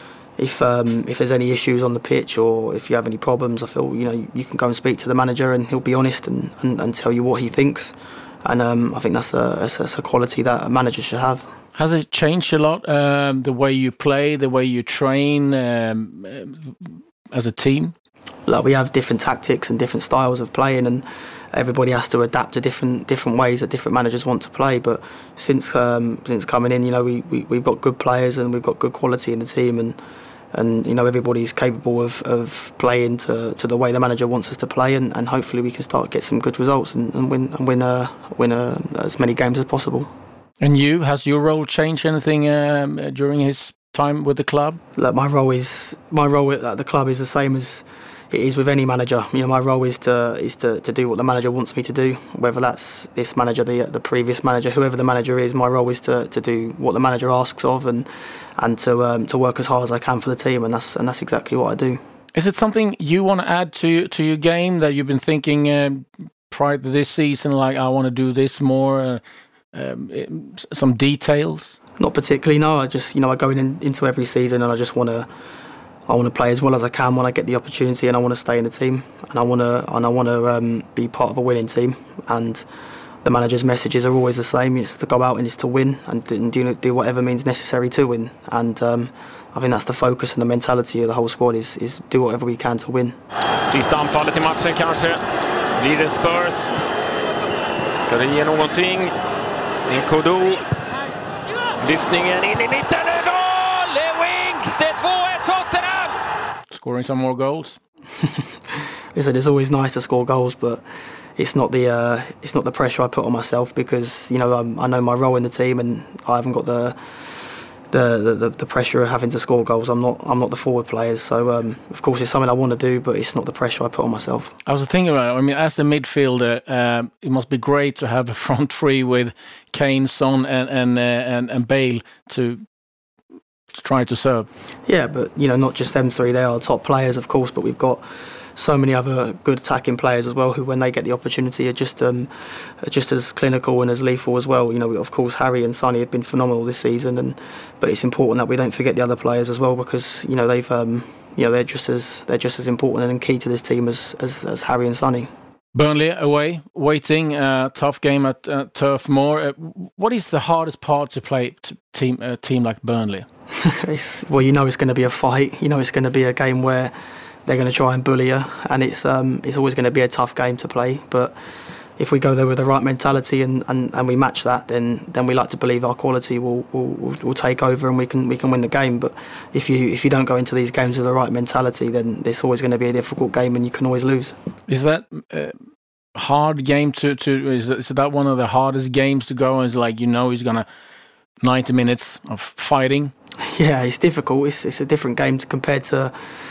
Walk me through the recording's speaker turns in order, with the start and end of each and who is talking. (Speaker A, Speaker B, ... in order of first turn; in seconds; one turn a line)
Speaker A: 0.4-11.5
Speaker B: 11.8-17.9
Speaker A: 18.5-29.9
Speaker A: 30.5-40.1
Speaker B: 40.6-44.8
Speaker A: 45.0-58.1
Speaker A: 58.6-62.0
Speaker B: 62.3-69.2
Speaker B: 69.7-71.8
Speaker A: 72.0-75.3
Speaker A: 76.1-82.6
Speaker A: 83.2-93.1
Speaker C: 93.7-95.2
Speaker C: 95.8-96.7
Speaker C: 98.1-99.1
Speaker C: 99.8-100.6
Speaker C: 101.8-106.1
Speaker B: 106.7-107.8
Speaker A: 108.2-110.8
Speaker A: 111.4-117.0
Speaker A: 117.9-124.5
Speaker B: 124.7-132.6
Speaker B: 133.7-134.5
Speaker A: 134.9-138.0
Speaker A: 138.6-155.3
Speaker B: 155.7-163.2
Speaker A: 163.6-166.9
Speaker A: 167.4-171.3
Speaker A: 172.0-184.3
Speaker B: 184.7-185.5
Speaker B: 186.1-190.7
Speaker B: 191.4-193.1
Speaker A: 193.4-196.1